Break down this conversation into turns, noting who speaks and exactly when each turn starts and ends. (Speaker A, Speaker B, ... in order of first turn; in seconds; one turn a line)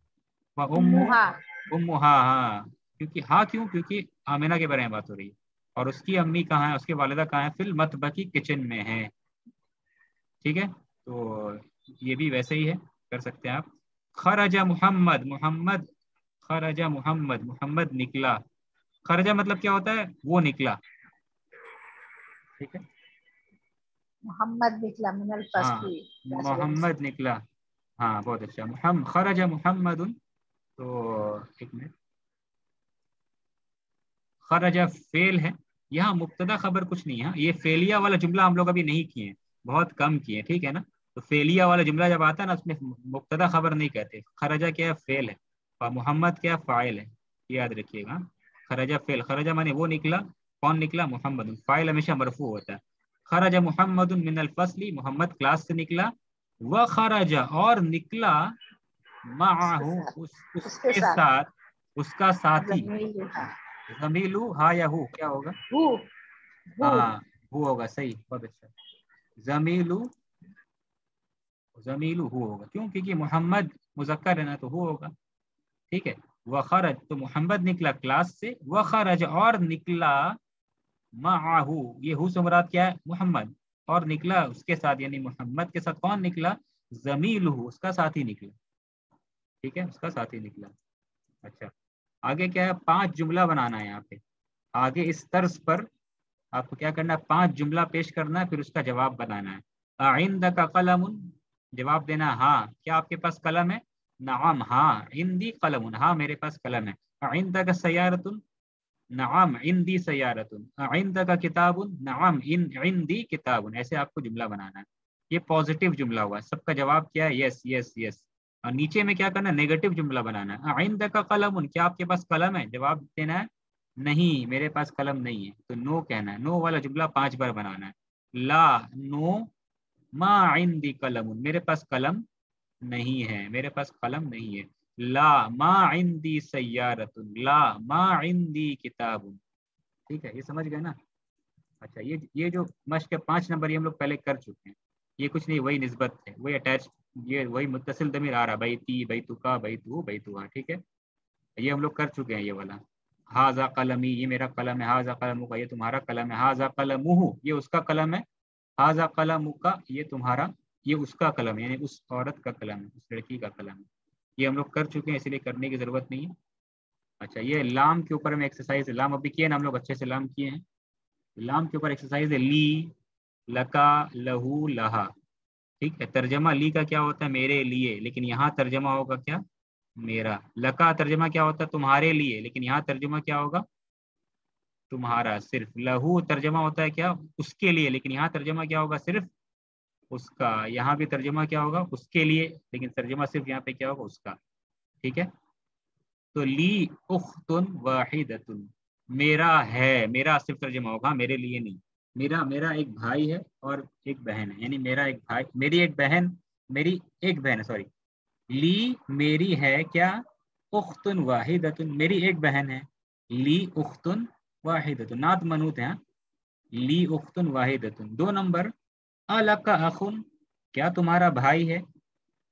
Speaker A: 0.6-9.1
Speaker B: 0.7-1.4
Speaker A: 10.4-15.9
Speaker A: 16.4-18.4
Speaker A: 19.1-20.8
Speaker B: 24.3-26.9
Speaker A: 25.6-27.4
Speaker A: 28.0-30.1
Speaker A: 30.8-31.9
Speaker A: 34.4-58.5
Speaker A: 59.2-62.9
Speaker B: 59.6-60.1
Speaker B: 60.6-61.2
Speaker B: 62.6-63.5
Speaker A: 63.9-65.6
Speaker B: 65.7-66.1
Speaker B: 66.7-67.1
Speaker A: 66.8-68.7
Speaker A: 69.4-70.1
Speaker A: 71.8-75.1
Speaker A: 75.9-80.4
Speaker A: 81.2-88.5
Speaker A: 89.6-90.7
Speaker A: 91.4-91.7
Speaker A: 92.2-94.2
Speaker A: 94.8-95.9
Speaker A: 96.5-108.4
Speaker A: 109.1-123.5
Speaker A: 124.0-129.5
Speaker A: 130.2-132.2
Speaker A: 132.8-139.4
Speaker A: 140.1-140.9
Speaker A: 141.8-150.8
Speaker A: 151.6-158.2
Speaker A: 158.8-163.8
Speaker A: 164.4-166.3
Speaker A: 167.2-170.6
Speaker A: 171.4-172.9
Speaker A: 173.5-175.1
Speaker A: 175.8-179.4
Speaker A: 180.0-183.6
Speaker A: 184.9-189.3
Speaker A: 190.1-194.4
Speaker A: 195.0-195.3
Speaker A: 196.3-207.9
Speaker A: 208.5-210.2
Speaker A: 210.7-216.0
Speaker A: 216.7-218.7
Speaker A: 219.3-220.2
Speaker A: 220.7-221.8